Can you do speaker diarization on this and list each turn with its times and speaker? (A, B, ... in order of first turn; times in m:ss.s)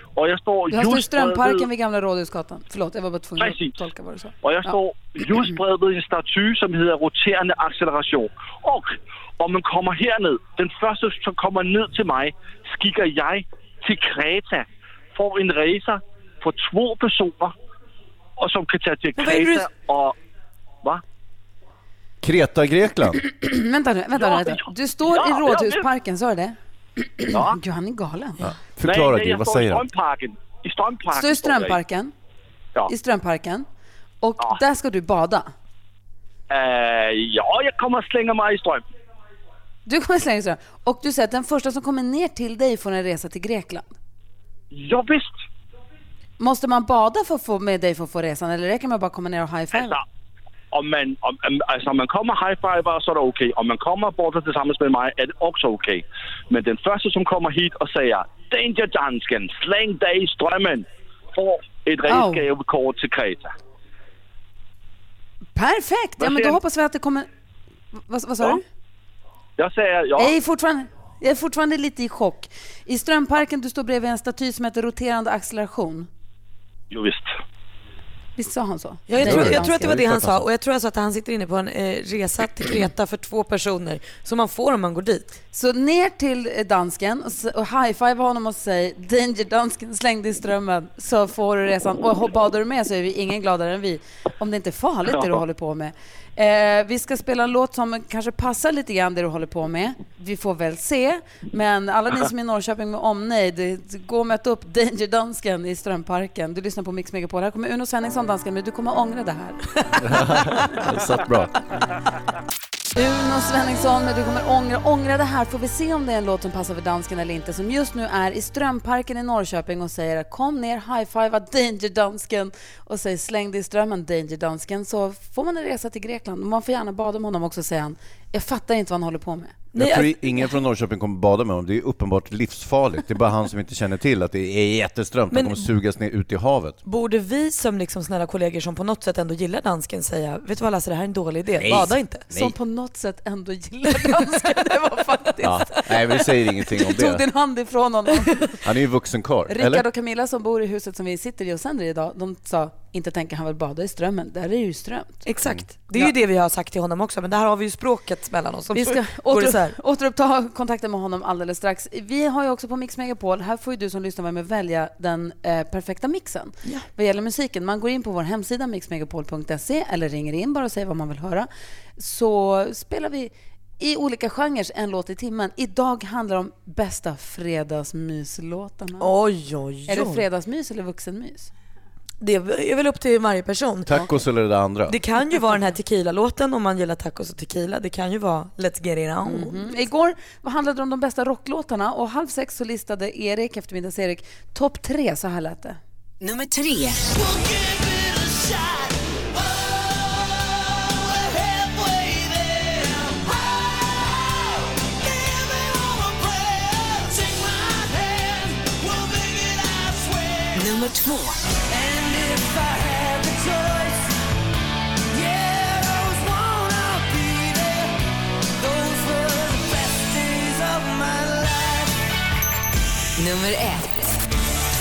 0:00.2-0:01.6 A
0:00.7-0:04.8 B
0:03.4-0:03.7 A
0:04.4-0:17.5 A
0:18.4-0:20.1 A
0:19.2-0:19.6 C
0:22.2-0:23.2 D
0:23.2-0:26.6 B
0:24.2-0:25.8 A
0:27.2-0:28.5 B
0:27.3-0:27.6 A
0:28.4-0:29.8 D
0:28.8-0:31.8 A
0:31.1-0:32.1 B
0:32.9-0:33.7 B
0:34.2-0:35.5 B
0:36.5-0:38.8 A
0:39.8-0:43.9 B
0:44.7-0:45.4 A
0:46.4-0:50.0 B
0:49.7-0:50.0 A
0:50.7-1:03.5 A
1:02.1-1:02.4 B
1:05.6-1:07.3 B
1:06.2-1:06.6 A
1:07.9-1:08.6 B
1:09.6-1:10.3 A
1:10.2-1:16.1 B
1:16.9-1:17.3 A
1:18.4-1:20.0 B
1:19.1-1:25.3 C
1:19.2-1:20.5 D
1:25.5-1:50.5 B
1:50.0-1:51.5 D
1:53.0-2:09.6 B
2:09.7-2:10.4 C
2:09.8-2:16.8 D
2:15.3-2:15.6 C
2:16.8-2:22.2 C
2:21.6-2:22.5 D
2:22.3-2:26.3 B
2:25.4-2:27.2 D
2:26.8-2:28.6 B
2:28.6-2:29.8 D
2:29.5-2:35.2 B
2:35.2-2:39.8 C
2:38.7-2:59.1 B
2:59.0-3:00.2 C
2:59.9-3:01.5 B
3:02.2-3:04.0 C
3:03.8-3:05.0 D
3:04.9-3:09.6 C
3:09.2-3:15.8 B
3:16.2-3:17.0 E
3:17.3-3:18.9 F
3:21.2-3:23.7 F
3:25.1-3:30.7 F
3:30.5-3:31.4 E
3:31.7-3:34.0 F
3:35.1-3:37.9 F
3:38.6-3:41.9 F
3:43.2-3:44.0 E